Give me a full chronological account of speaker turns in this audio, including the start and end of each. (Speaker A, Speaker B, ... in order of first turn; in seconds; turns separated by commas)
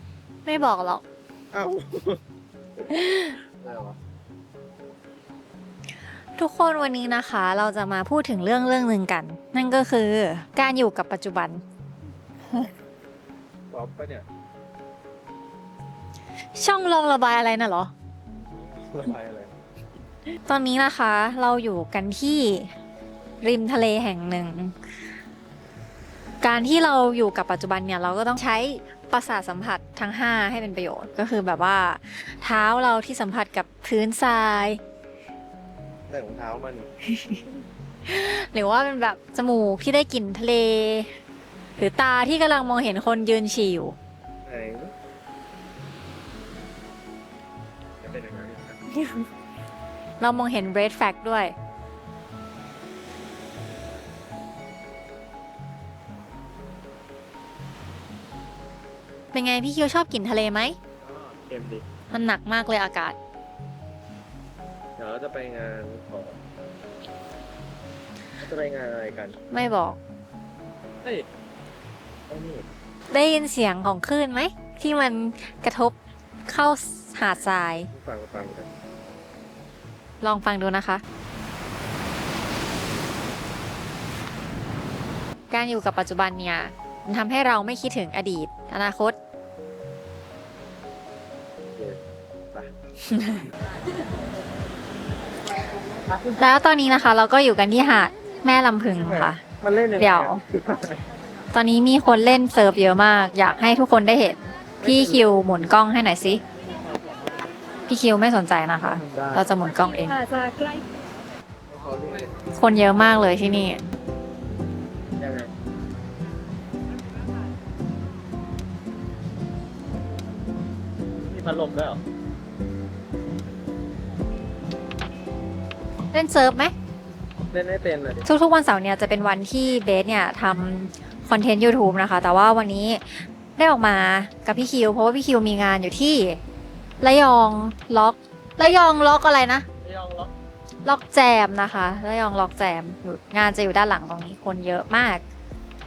Speaker A: 0.5-1.0, Speaker B: 1.5-2.2, Speaker B: 2.8-4.0, Speaker A: 2.9-3.4, Speaker A: 6.4-11.6, Speaker B: 13.7-14.3, Speaker A: 16.6-17.9, Speaker B: 18.7-19.6, Speaker A: 20.5-22.7, Speaker A: 23.4-24.9, Speaker A: 26.4-34.8, Speaker B: 36.1-36.9, Speaker A: 37.1-37.4, Speaker A: 38.0-41.1, Speaker A: 41.8-44.0, Speaker B: 44.5-44.9, Speaker B: 48.0-48.8, Speaker A: 49.0-49.2, Speaker A: 50.2-51.5, Speaker A: 59.3-60.8, Speaker B: 61.0-61.9, Speaker A: 62.1-63.2, Speaker B: 65.0-66.4, Speaker B: 68.4-69.4, Speaker A: 69.5-70.0, Speaker B: 72.3-72.7, Speaker A: 73.1-76.0, Speaker A: 76.5-77.9, Speaker B: 77.9-78.7, Speaker A: 80.2-81.0, Speaker A: 85.5-89.2, Speaker B: 91.8-92.0, Speaker A: 93.1-93.5, Speaker A: 96.3-99.4, Speaker B: 99.0-101.0, Speaker A: 100.0-100.4, Speaker A: 101.5-106.4, Speaker B: 104.8-105.3, Speaker A: 107.9-110.5, Speaker B: 108.8-109.5, Speaker B: 111.7-112.4, Speaker A: 112.5-113.8, Speaker B: 115.2-115.5, Speaker B: 121.2-122.0, Speaker A: 126.1-126.7, Speaker B: 127.5-128.3, Speaker A: 128.2-136.4, Speaker A: 137.0-139.7, Speaker B: 139.8-140.3, Speaker A: 140.8-145.2